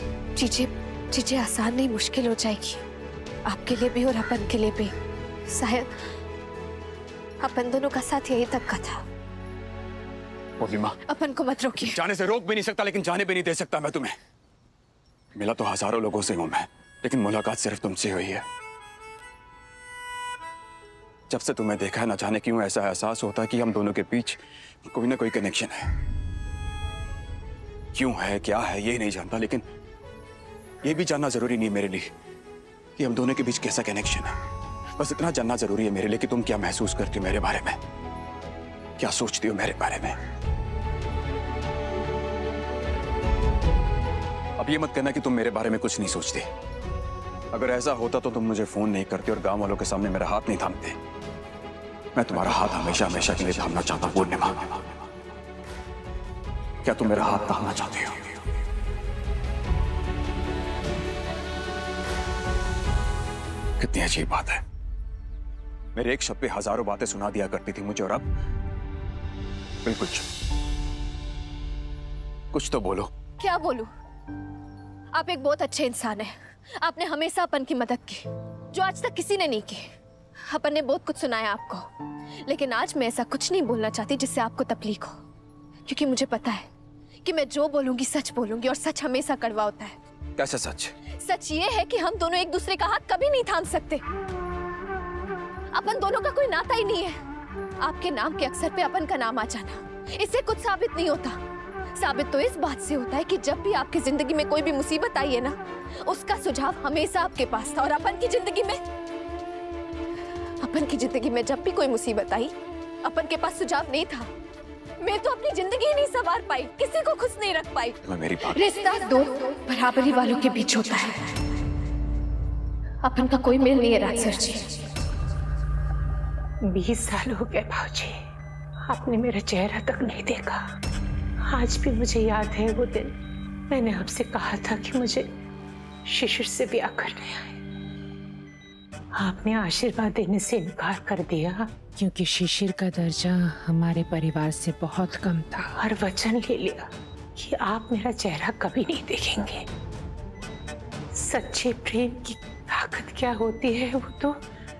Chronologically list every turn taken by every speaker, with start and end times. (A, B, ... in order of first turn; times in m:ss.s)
0:00.4-0:02.8 A
0:03.4-0:04.9 A
0:05.5-0:06.0 A
0:07.4-0:09.0 A
0:10.6-0:11.0 B
0:11.0-0:12.0 A
0:11.7-0:14.1 B
0:15.3-0:18.4 B
0:21.3-0:25.9 B
0:27.9-0:29.6 B
0:30.8-0:32.1 B
0:33.0-0:34.3 B
0:35.0-0:37.8 B
0:39.0-0:40.2 B
0:44.6-0:46.4 B
0:47.5-0:51.0 B
0:52.1-0:54.9 B
0:56.8-0:58.4 B
1:03.8-1:04.6 B
1:05.9-1:08.3 B
1:09.8-1:10.3 B
1:12.5-1:13.1 B
1:13.4-1:13.9 A
1:15.1-1:19.8 A
1:20.4-1:21.9 A
1:22.4-1:25.2 A
1:25.8-1:26.7 A
1:27.2-1:30.0 A
1:30.4-1:30.9 B
1:31.0-1:34.0 A
1:35.7-1:37.2 A
1:37.8-1:41.4 A
1:42.0-1:48.8 A
1:50.6-1:52.5 A
1:53.0-1:54.3 A
1:55.0-2:01.4 A
1:58.0-1:58.6 B
2:03.0-2:04.8 A
2:06.7-2:08.2 C
2:08.9-2:10.6 C
2:11.4-2:13.1 C
2:13.7-2:15.3 C
2:16.0-2:17.6 C
2:19.1-2:21.8 C
2:22.0-2:25.8 D
2:25.8-2:29.7 C
2:31.1-2:34.4 C